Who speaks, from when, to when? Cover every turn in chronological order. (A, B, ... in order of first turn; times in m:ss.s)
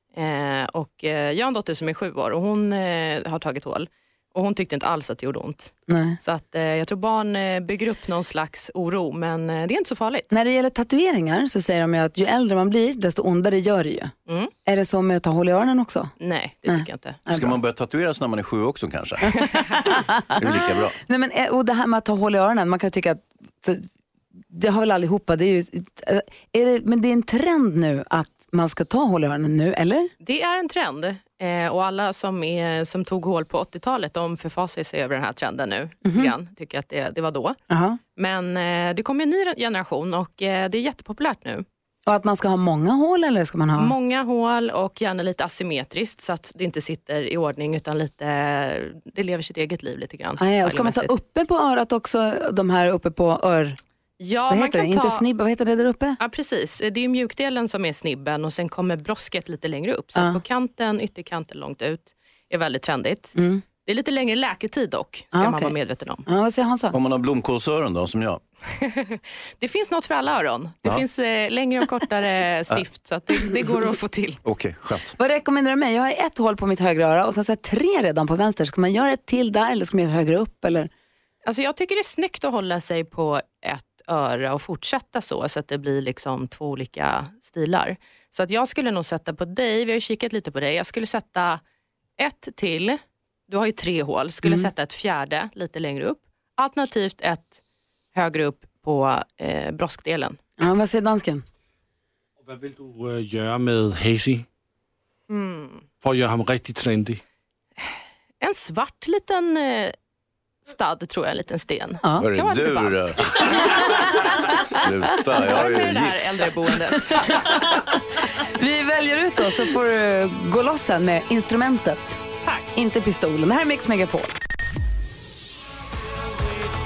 0:00.1-0:10.3 A
0:05.9-0:06.2 B
0:10.3-0:14.1 B
0:14.6-0:16.1 B
0:16.2-0:17.2 A
0:16.7-0:17.6 B
0:17.3-0:19.3 C
0:19.3-0:23.8 B
0:20.4-0:21.0 C
0:24.5-0:30.1 B
0:30.2-0:37.6 A
0:36.0-0:36.3 B
0:37.7-0:38.0 B
0:38.2-0:41.6 A
0:42.0-0:44.0 B
0:43.8-0:51.1 A
0:50.4-0:53.8 B
0:54.2-0:55.2 A
0:54.5-0:56.2 B
0:56.2-1:06.2 A
1:00.1-1:00.4 B
1:03.3-1:03.6 B
1:05.3-1:05.8 B
1:06.3-1:07.0 B
1:06.9-1:08.4 C
1:08.8-1:14.4 A
1:14.4-1:15.1 C
1:15.2-1:20.9 B
1:21.4-1:31.6 A
1:32.2-1:37.6 A
1:34.4-1:34.7 B
1:38.1-1:40.4 A
1:40.6-1:41.4 B
1:42.4-1:44.4 D
1:45.3-1:45.8 A
1:46.0-1:47.2 D
1:48.4-1:49.9 A
1:50.6-1:54.2 A
1:52.2-1:56.2 C
1:53.8-1:54.4 B
1:55.2-1:57.6 A
1:57.4-2:02.2 B
2:02.7-2:04.3 B